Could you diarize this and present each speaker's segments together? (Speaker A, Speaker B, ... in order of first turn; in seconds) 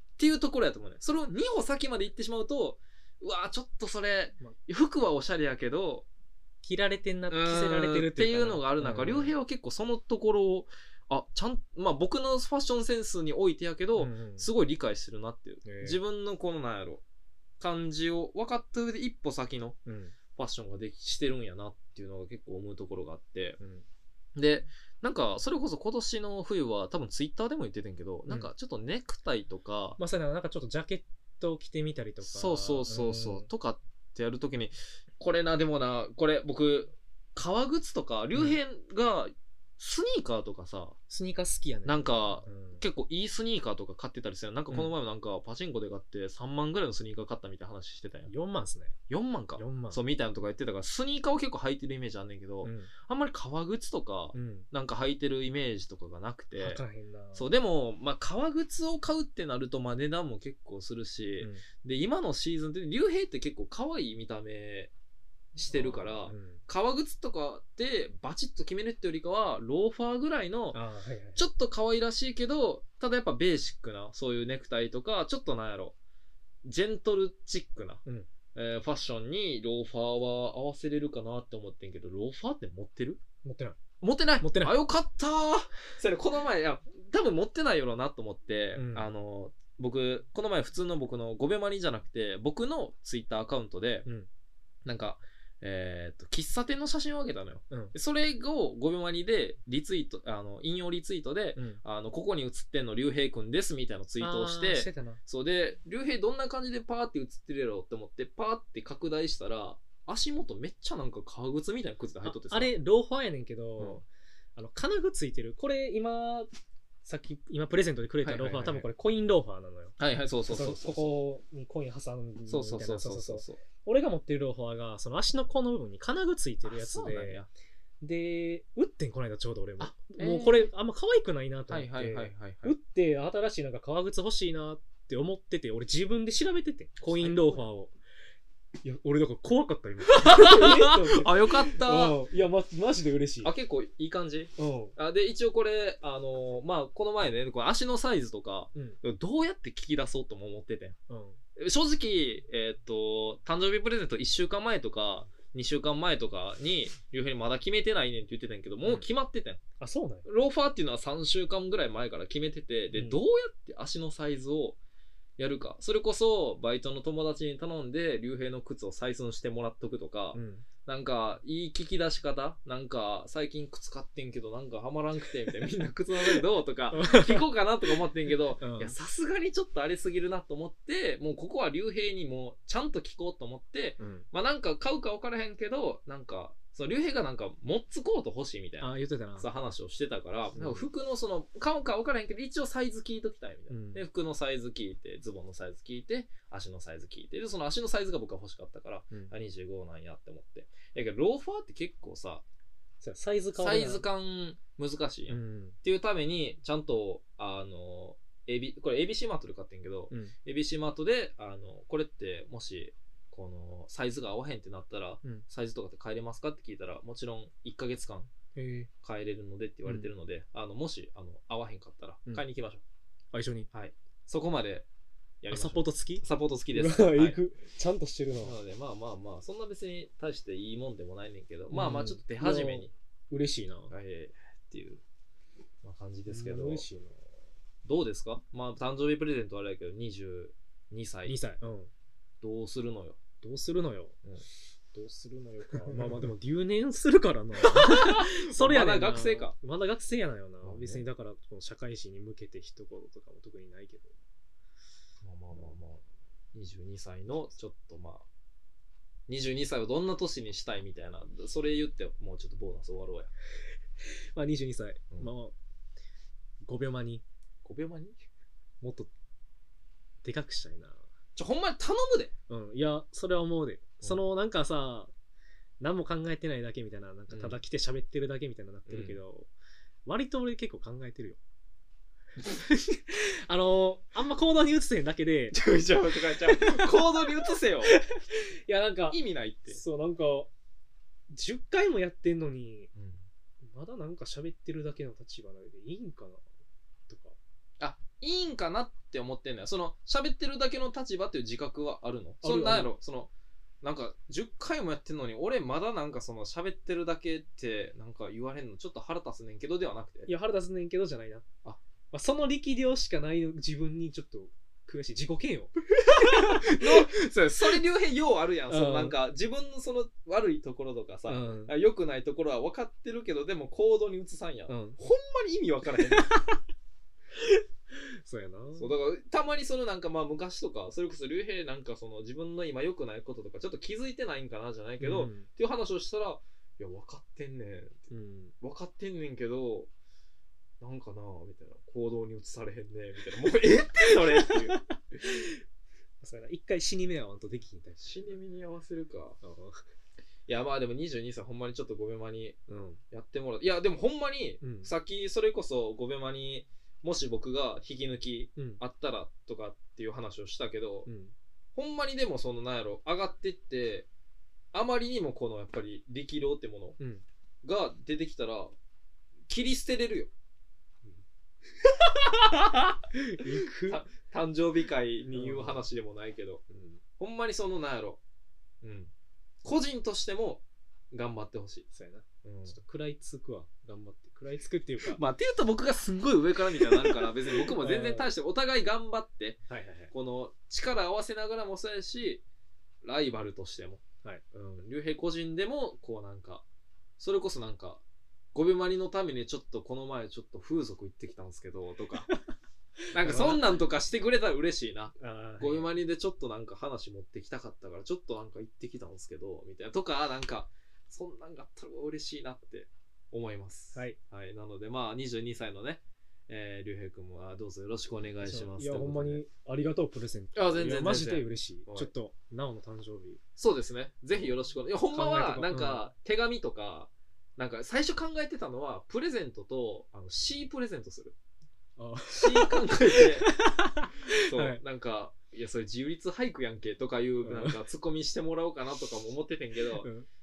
Speaker A: 0.2-6.1, 7.3-17.0, 17.6-19.8, 20.4-23.6, 24.4-30.0, 32.2-41.0, 41.9-48.3, 49.1-56.8, 57.4-64.9, 65.5-70.8, 71.4-76.0, 76.7-78.0, 78.5-83.2, 84.0-94.1, 94.8-112.8, 118.2-118.9, 120.0-121.2, 122.5-123.6, 126.7-127.5, 129.8-130.7, 131.7-132.8, 137.0-137.6, 140.1-142.2, 143.4-151.0, 151.6-159.6, 160.2-164.8, 165.4-202.4, 203.6-218.3, 219.0-222.8, 223.7-224.9, 225.4-227.4, 228.4-232.9, 233.9-235.0, 235.8-236.9, 237.8-241.4, 242.4-243.2, 247.8-249.6, 250.6-251.0, 255.2-258.3, 259.3-263.3, 267.6-268.2, 271.4-272.3, 277.3-277.6, 278.9-279.2, 285.5-288.0, 289.1-289.8, 292.9-293.2, 297.8-303.3, 303.8-310.3, 316.2-326.4, 328.8-339.9, 340.8-344.7, 348.0-349.4, 350.5-352.6, 353.1-361.1, 361.8-364.1, 364.7-367.0, 367.6-368.7, 369.5-370.3, 372.1-373.0, 373.9-376.6, 377.2-378.2, 378.8-379.1, 379.6-381.9, 382.4-382.8, 385.0-392.4, 393.0-396.6, 397.2-398.0, 398.5-402.3, 403.1-419.4, 420.6-422.1, 423.6-431.4, 432.3-433.5, 434.3-440.1
Speaker B: 6.6-9.3, 14.0-14.5, 15.7-16.0, 19.9-20.1, 23.6-23.9, 30.0-33.5, 41.1-42.8, 48.3-49.0, 49.6-50.0, 52.6-52.9, 54.3-54.7, 56.6-57.5, 65.6-66.6, 70.7-71.5, 83.4-83.8, 84.4-84.8, 88.8-89.1, 101.6-101.8, 104.2-105.2, 112.2-116.5, 117.0-127.4, 128.0-137.9, 138.8-143.5, 144.6-144.9, 151.1-151.4, 159.8-160.2, 162.9-163.2, 170.3-170.7, 176.3-177.5, 178.6-179.0, 184.0-184.3, 188.8-189.5, 190.5-190.9, 193.7-194.0, 203.0-204.1, 205.3-205.8, 218.6-218.9, 219.8-220.1, 223.3-223.7, 225.5-228.6, 231.7-233.9, 236.3-237.2, 241.3-241.9, 243.4-244.2, 244.9-254.2, 264.3-265.6, 266.6-267.2, 268.8-269.1, 270.2-271.0, 272.5-275.1, 275.8-279.5, 280.1-281.4, 282.4-285.6, 286.5-286.9, 287.8-289.2, 289.7-290.5, 291.3-292.9, 293.6-296.5, 297.1-297.4, 302.4-302.9, 310.3-311.4, 312.1-317.1, 318.7-319.2, 321.3-321.7, 324.7-325.0, 326.0-326.6, 327.9-328.9, 335.0-335.5, 338.1-338.6, 344.1-345.6, 346.2-348.3, 349.4-349.8, 352.7-353.0, 354.6-354.9, 361.1-361.4, 367.0-367.2, 373.1-374.0, 375.3-375.9, 376.7-377.0, 381.9-385.2, 386.7-388.3, 389.7-390.1, 403.1-403.8, 405.2-405.9, 418.4-423.4, 425.1-426.1, 432.0-434.8, 437.4-437.8, 440.0-440.3